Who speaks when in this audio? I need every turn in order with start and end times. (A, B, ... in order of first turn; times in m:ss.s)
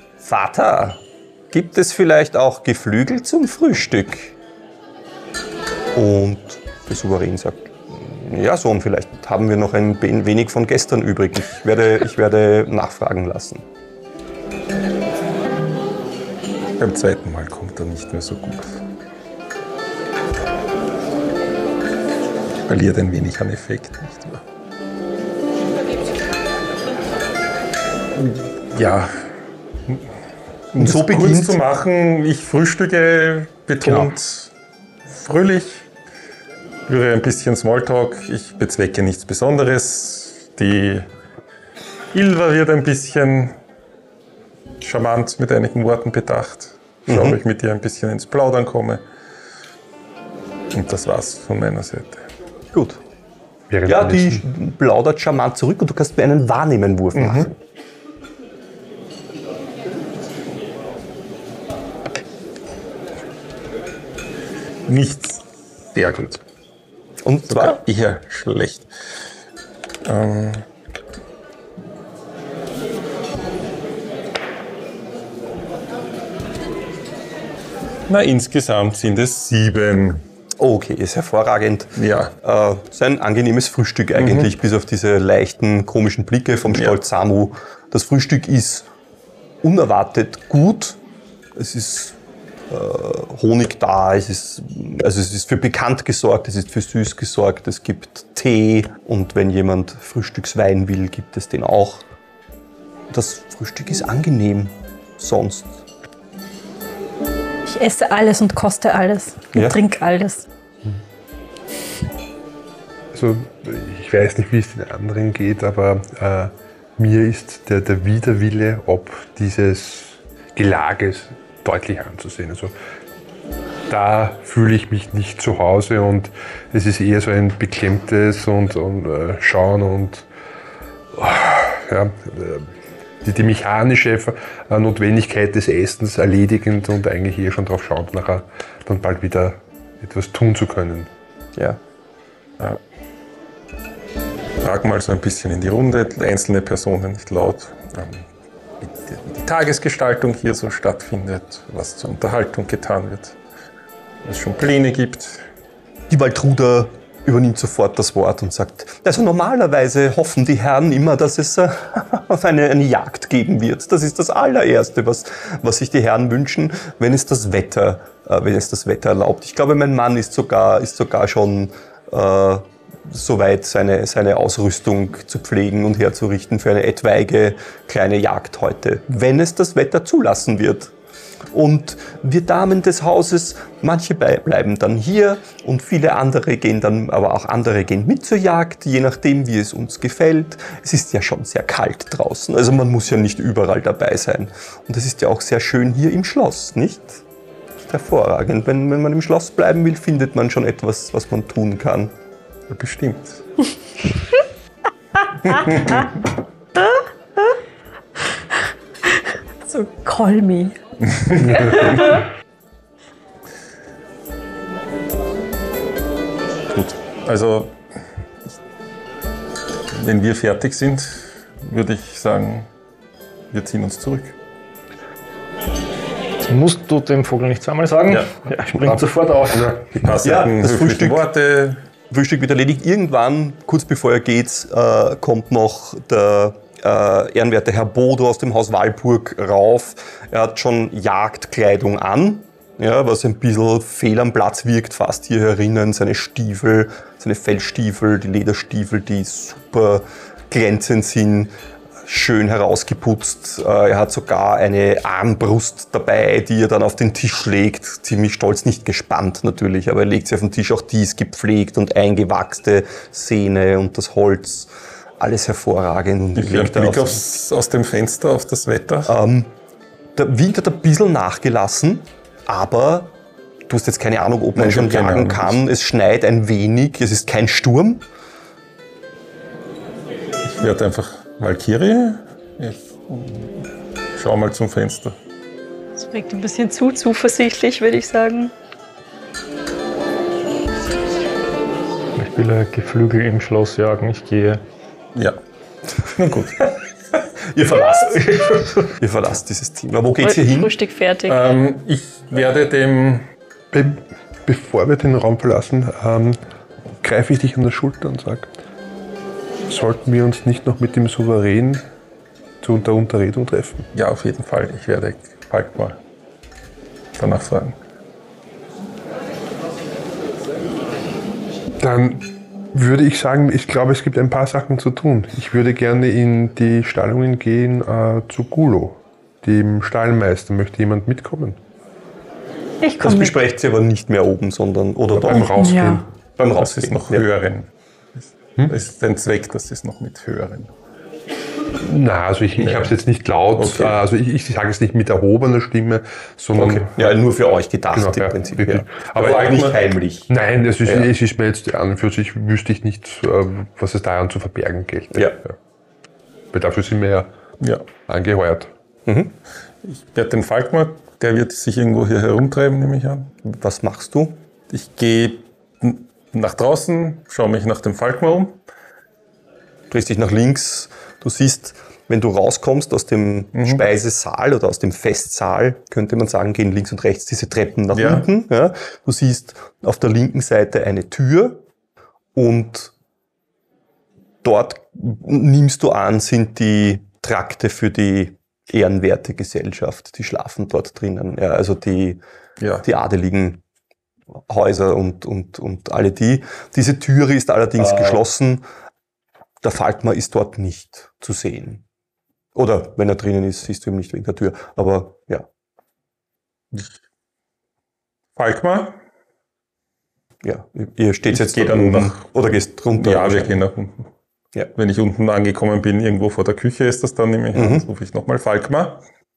0:00.2-0:04.4 A
0:05.9-0:13.7 A
0:16.8-0:18.8 B
0:22.7-0:24.4 B
0:28.2-0:29.2 B
0:30.7-0:34.5 B
0:30.8-0:31.6 A
0:35.1-0:35.8 B
0:36.9-0:41.1 B
0:42.1-0:43.6 B
0:44.8-0:49.0 B
0:47.1-0:47.4 A
0:50.7-0:52.2 B
0:52.7-0:53.0 A
0:53.7-0:54.4 C
0:53.9-0:57.5 A
0:57.2-0:57.5 B
1:04.9-1:05.4 B
1:05.9-1:06.4 B
1:07.2-1:07.8 A
1:07.5-1:08.9 B
1:10.0-1:10.6 B
1:18.1-1:20.2 B
1:20.6-1:28.9 A
1:22.0-1:22.3 B
1:24.2-1:24.5 B
1:26.7-1:27.0 B
1:29.6-1:31.0 A
1:31.6-1:32.2 A
1:32.7-1:42.0 A
1:43.1-1:45.8 A
1:47.7-1:50.5 D
1:49.5-1:49.8 A
1:53.1-2:02.7 C
2:03.9-2:10.3 C
2:11.1-2:21.1 C
2:24.6-2:28.2 B
2:28.8-2:33.4 B
2:34.2-2:35.4 B
2:36.1-3:00.9 A
3:01.5-3:17.2 A
3:17.8-3:22.1 A
3:22.7-3:23.4 B
3:25.5-3:26.2 B
3:26.8-3:27.6 D
3:29.6-3:30.8 D
3:31.2-3:32.0 B
3:31.4-3:32.1 C
3:31.6-3:32.2 D
3:36.7-3:37.8 B
3:39.9-3:42.7 B
3:43.5-3:44.4 B
3:46.5-3:49.7 E
3:49.5-3:49.8 C
3:50.0-3:51.2 A
3:50.0-3:51.8 B
3:52.1-4:11.5 A
4:12.0-4:27.2 A
4:26.4-4:29.1 B
4:29.0-4:29.5 A
4:30.2-4:33.1 A
4:33.7-4:38.0 A
4:34.6-4:35.6 B
4:40.4-4:45.2 B
4:46.0-4:48.5 F
4:52.2-4:54.6 E
4:56.0-4:56.6 B
4:57.2-5:00.7 A
4:58.3-4:58.8 E
5:00.2-5:01.4 F
5:01.3-5:03.3 B
5:03.7-5:06.4 C
5:07.0-5:08.5 C
5:09.7-5:11.8 C
5:12.6-5:13.9 C
5:14.0-5:16.0 B
5:17.2-5:17.8 B
5:21.8-5:31.6 C
5:32.8-5:33.4 D
5:33.0-5:35.7 A
5:35.2-5:36.1 C
5:35.6-5:36.0 D
5:36.4-5:37.3 A
5:36.6-5:37.7 B
5:38.7-5:40.7 B
5:41.8-5:47.1 C
5:42.6-5:43.0 B
5:43.6-5:44.0 B
5:46.6-5:50.3 A
5:47.9-5:49.6 C
5:49.2-5:49.8 B
5:50.3-5:55.6 C
5:56.5-5:57.3 C
5:57.6-5:57.9 B
5:58.1-5:58.7 C
5:59.1-5:59.3 A
5:59.8-6:03.3 B
6:03.4-6:04.4 A
6:04.7-6:08.6 B
6:09.9-6:21.6 A
6:13.6-6:13.8 B
6:17.9-6:18.3 B
6:22.4-6:22.9 A
6:24.4-6:32.2 A
6:32.6-6:32.8 B
6:32.8-6:33.6 A
6:34.4-6:38.7 A
6:37.8-6:38.2 B
6:39.6-6:41.8 A
6:42.6-6:45.5 A
6:48.4-6:49.0 B
6:50.4-6:53.6 A
6:51.3-6:52.3 B
6:53.0-6:54.1 B
6:54.8-6:59.0 B
6:57.5-6:57.9 A